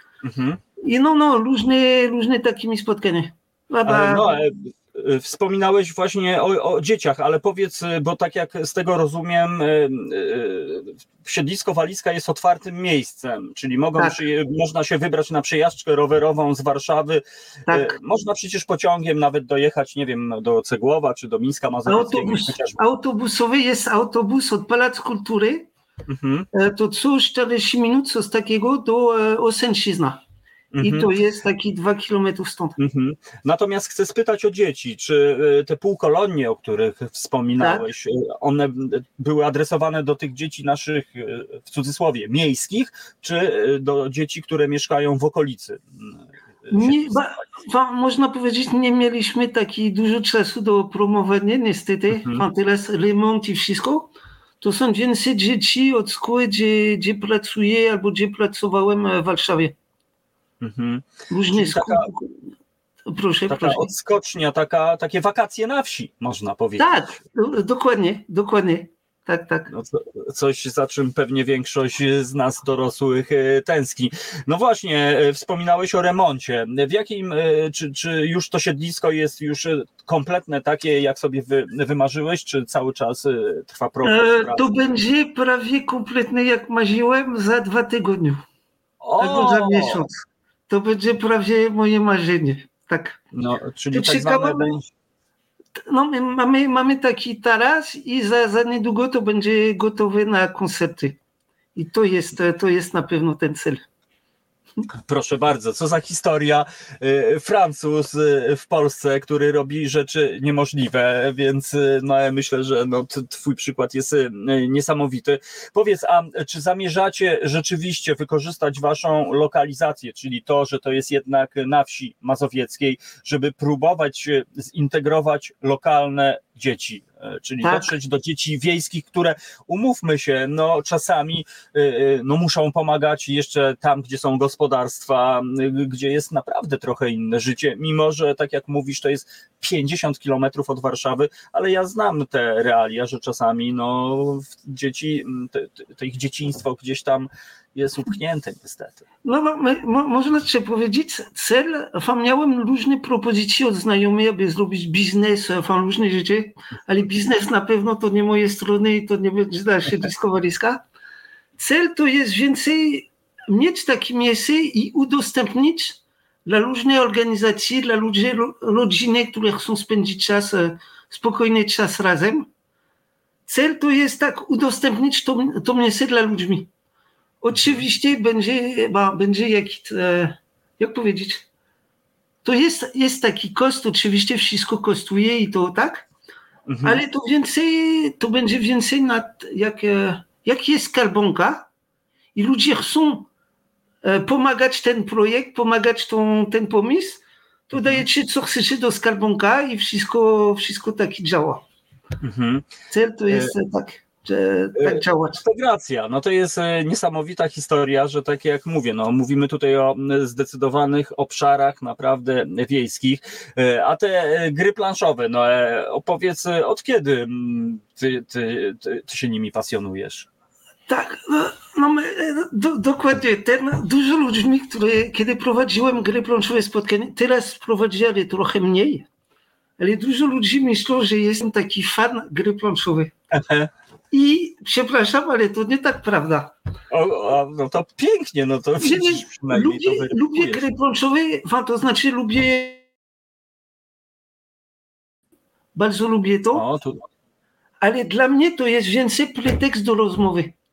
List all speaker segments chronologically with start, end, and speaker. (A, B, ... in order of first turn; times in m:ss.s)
0:00.2-0:00.6 A
0:00.8-0:04.3 B
0:03.8-0:22.8 A
0:17.7-0:18.0 B
0:21.9-0:25.7 B
0:26.1-0:26.5 A
0:26.5-0:30.2 B
0:30.7-0:31.1 A
0:30.8-0:32.8 B
0:32.8-0:47.3 A
0:37.6-0:37.8 B
0:46.7-0:59.8 B
0:52.1-0:52.5 A
1:00.6-1:02.1 A
1:01.3-1:02.4 B
1:03.1-1:03.9 B
1:03.5-1:07.0 A
1:06.8-1:09.7 B
1:09.7-1:24.7 A
1:24.0-1:28.4 B
1:29.0-1:30.1 A
1:29.2-1:33.2 B
1:33.3-1:34.9 A
1:33.9-1:34.7 B
1:35.8-1:41.2 B
1:41.8-1:43.8 B
1:45.1-2:29.0 A
2:07.6-2:07.9 B
2:29.2-2:40.8 B
2:41.6-2:52.5 B
2:53.5-2:56.7 B
2:57.4-3:01.4 B
2:57.5-2:57.9 A
3:02.4-3:06.1 B
3:06.7-3:07.0 A
3:06.8-3:11.7 B
3:12.4-3:13.3 B
3:14.0-3:21.6 B
3:17.7-3:18.1 A
3:22.2-3:22.7 A
3:22.9-3:25.4 B
3:23.3-3:23.6 A
3:24.8-3:40.3 A
3:40.9-3:49.1 B
3:49.8-3:53.1 B
3:53.3-3:53.7 A
3:54.1-3:56.5 B
3:56.9-4:00.7 A
3:58.8-4:02.8 B
4:05.7-4:06.6 B
4:06.5-4:07.1 A
4:07.8-4:10.5 B